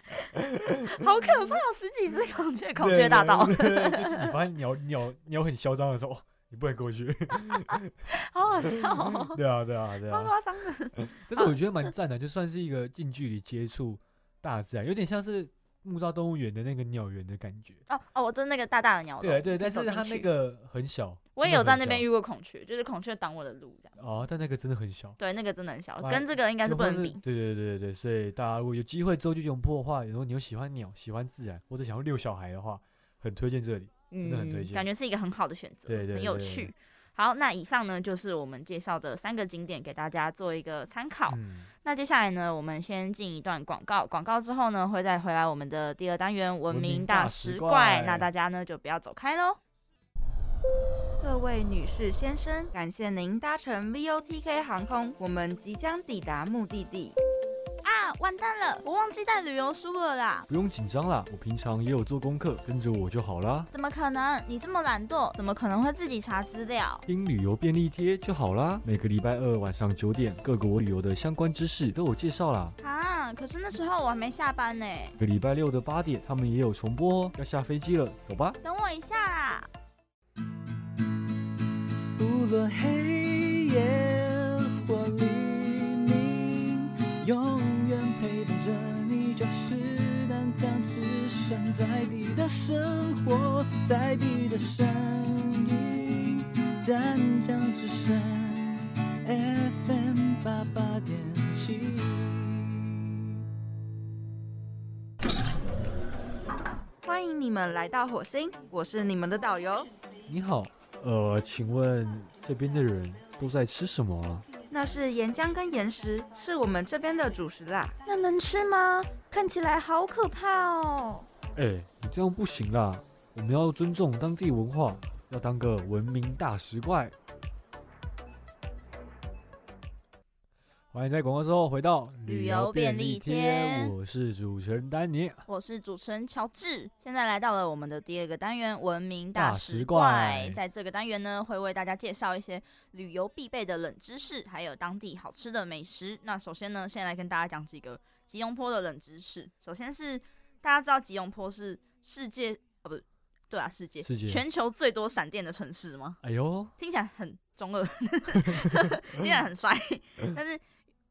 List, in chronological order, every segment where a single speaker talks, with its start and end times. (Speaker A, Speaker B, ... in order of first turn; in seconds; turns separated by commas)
Speaker A: 0.9-4.3, Speaker B: 2.8-7.9, Speaker A: 8.1-9.4, Speaker B: 9.2-10.3, Speaker A: 10.1-11.5, Speaker B: 11.0-17.8, Speaker A: 17.9-20.3, Speaker B: 19.2-22.1, Speaker A: 21.3-23.9, Speaker B: 23.9-25.2, Speaker A: 25.2-27.2, Speaker B: 26.0-34.9, Speaker A: 34.1-49.6, Speaker B: 35.9-36.7, Speaker B: 41.3-41.7, Speaker B: 46.7-48.3, Speaker C: 51.2-57.1, Speaker A: 57.8-60.5, Speaker B: 60.5-63.7, Speaker A: 63.7-67.0, Speaker B: 67.1-72.8, Speaker A: 72.8-75.2, Speaker B: 75.2-78.6, Speaker A: 78.6-79.7, Speaker D: 82.2-102.8, Speaker C: 107.0-109.9, Speaker B: 110.3-114.5, Speaker C: 114.7-117.9, Speaker E: 118.0-121.2, Speaker B: 121.5-127.1, Speaker B: 130.9-135.4, Speaker A: 132.2-133.9, Speaker A: 135.5-156.2, Speaker B: 139.3-140.6, Speaker B: 154.0-154.4, Speaker B: 156.2-156.7, Speaker A: 156.8-160.6, Speaker B: 158.4-158.8